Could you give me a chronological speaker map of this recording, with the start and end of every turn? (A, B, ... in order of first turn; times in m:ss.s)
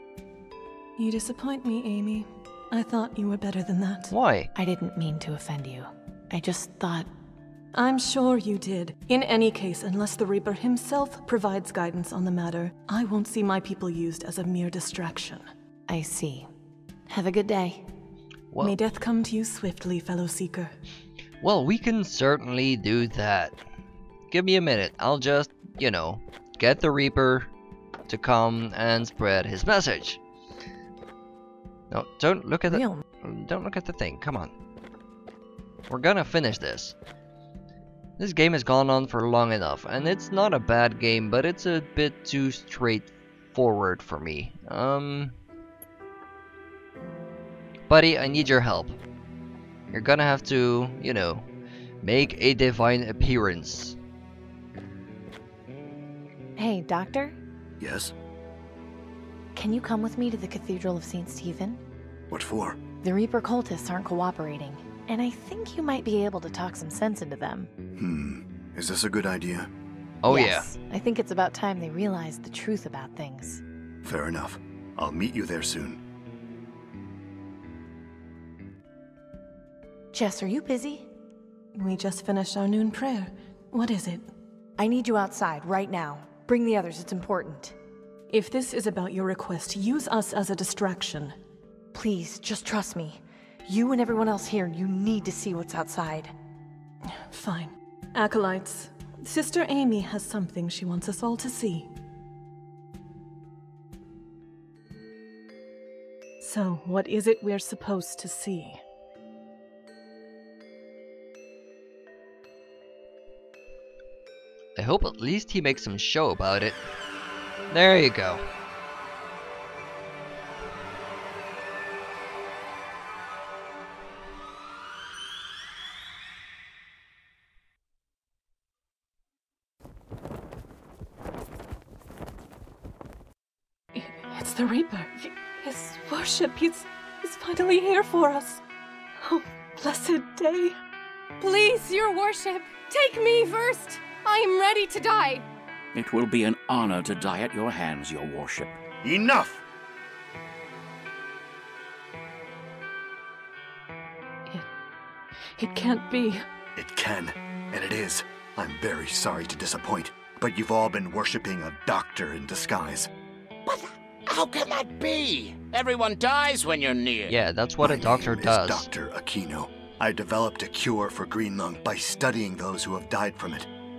0:01.0-0:04.1 A
0:04.1-0:04.5 B
0:04.6-0:07.1 C
0:07.7-0:15.5 A
0:15.9-0:16.5 C
0:17.1-0:17.9 C
0:18.5-0:18.8 B
0:18.6-0:20.8 A
0:21.4-0:23.6 B
0:24.3-0:27.5 B
0:28.1-0:30.2 B
0:31.9-0:34.5 B
0:32.7-0:33.0 C
0:35.9-0:36.9 B
0:38.2-0:45.4 B
0:47.9-0:49.0 B
0:49.9-0:51.4 B
0:52.0-0:54.0 B
0:56.6-0:57.4 C
0:57.8-0:58.1 D
0:59.6-1:01.8 C
1:02.3-1:02.8 D
1:03.0-1:07.7 C
1:08.0-1:09.7 D
1:10.2-1:10.7 B
1:10.3-1:13.6 C
1:14.0-1:16.0 D
1:20.1-1:21.1 C
1:21.8-1:24.3 A
1:24.8-1:27.8 C
1:28.3-1:31.4 A
1:31.9-1:36.3 C
1:37.1-1:41.9 A
1:46.4-1:48.8 A
1:54.8-1:56.8 B
1:57.7-1:58.4 B
2:13.9-2:18.6 A
2:19.2-2:20.8 A
2:21.4-2:25.4 E
2:25.9-2:28.8 F
2:29.0-2:29.6 D
2:35.6-2:36.4 A
2:36.8-2:43.1 D
2:43.7-2:47.4 G
2:47.3-2:48.9 B
2:47.8-2:53.7 D